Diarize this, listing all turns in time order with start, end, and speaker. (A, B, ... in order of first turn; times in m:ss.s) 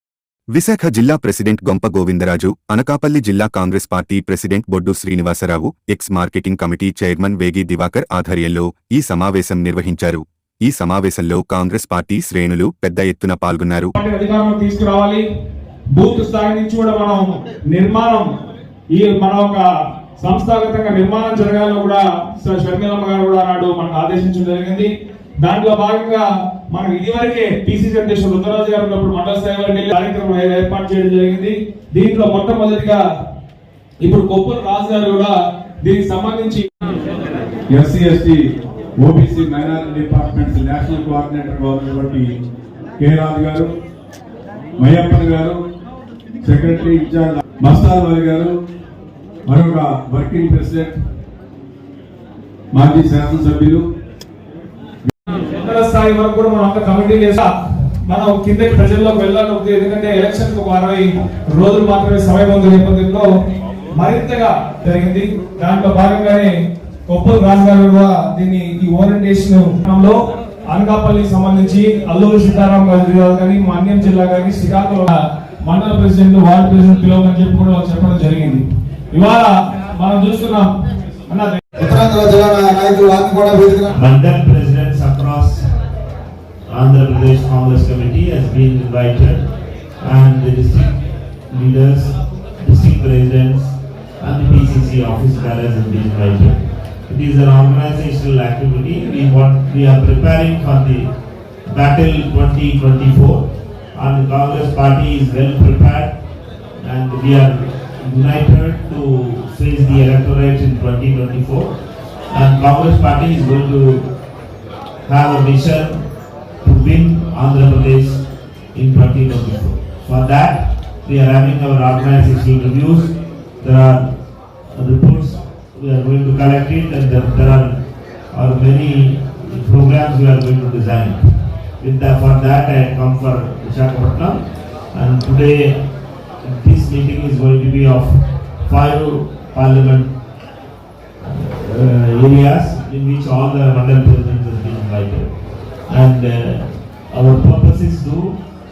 0:00.5-0:13.9 A
0:14.0-0:15.2 B
0:16.0-0:18.3 B
0:18.9-0:19.6 B
0:20.2-0:24.9 B
0:25.4-0:33.0 B
0:34.0-0:36.6 B
0:37.7-0:38.4 C
0:39.0-0:42.4 C
0:43.0-0:43.8 C
0:44.8-0:45.6 C
0:46.4-0:48.6 C
0:49.5-0:51.0 C
0:52.7-0:53.9 C
0:55.6-0:57.5 B
0:58.1-1:03.3 B
1:04.0-1:06.5 B
1:07.1-1:10.2 B
1:10.7-1:20.7 B
1:21.3-1:21.6 B
1:21.8-1:23.9 D
1:24.0-1:25.6 E
1:26.7-1:29.4 E
1:30.0-1:41.1 E
1:41.7-1:46.2 E
1:46.8-1:51.7 E
1:52.3-1:54.1 E
1:55.0-1:56.0 E
1:56.6-2:04.1 E
2:04.7-2:11.2 E
2:11.8-2:14.4 E
2:14.9-2:15.8 E
2:16.4-2:20.2 E
2:21.2-2:25.3 E
2:25.9-2:28.4 E